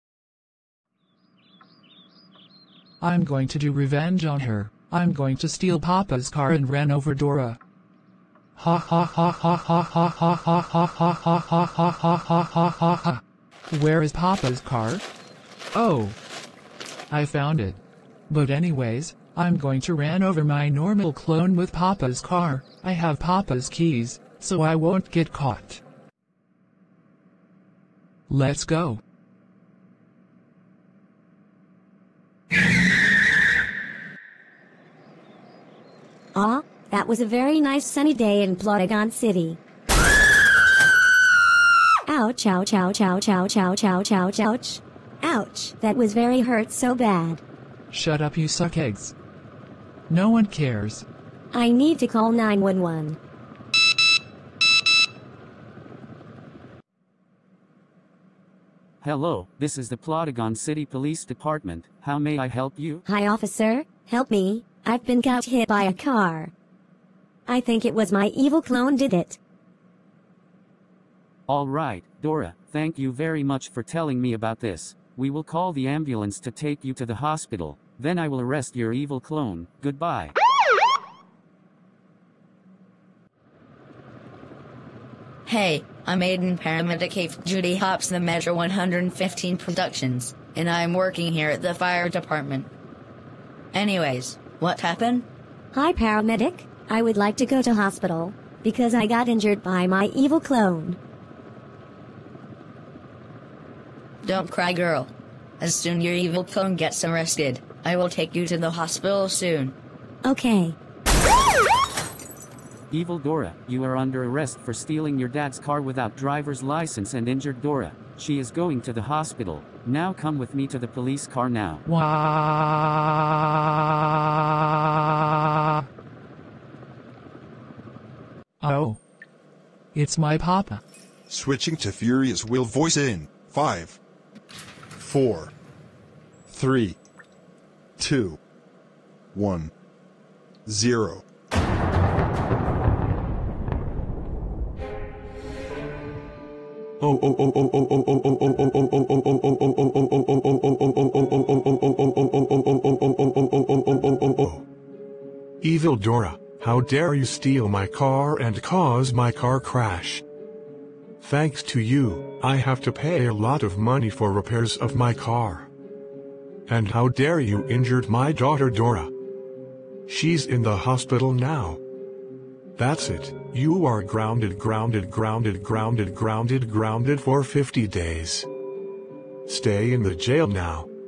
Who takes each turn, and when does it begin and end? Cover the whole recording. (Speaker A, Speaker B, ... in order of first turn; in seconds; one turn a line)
Speaker A: 3.0-7.6
Speaker A: 8.6-15.0
Speaker A: 15.7-16.1
Speaker A: 17.1-25.8
Speaker A: 28.3-29.0
Speaker B: 36.3-39.6
Speaker B: 42.1-47.4
Speaker A: 47.9-49.1
Speaker A: 50.1-51.0
Speaker B: 51.5-53.2
Speaker C: 59.0-63.0
Speaker B: 63.0-66.5
Speaker B: 67.5-69.4
Speaker C: 71.5-80.3
Speaker D: 85.5-92.7
Speaker D: 93.7-95.2
Speaker B: 95.7-101.0
Speaker D: 104.2-109.7
Speaker B: 110.2-110.8
Speaker C: 112.9-121.8
Speaker A: 121.8-123.3
Speaker A: 125.2-125.8
Speaker A: 128.6-129.0
Speaker A: 129.9-130.8
Speaker E: 131.3-134.0
Speaker E: 134.9-135.5
Speaker E: 136.5-137.0
Speaker E: 138.0-138.4
Speaker E: 139.3-139.7
Speaker E: 140.7-141.2
Speaker F: 147.0-154.7
Speaker F: 155.6-160.2
Speaker F: 161.2-165.7
Speaker F: 166.7-169.1
Speaker F: 170.1-171.8
Speaker F: 172.8-178.5
Speaker F: 179.4-180.9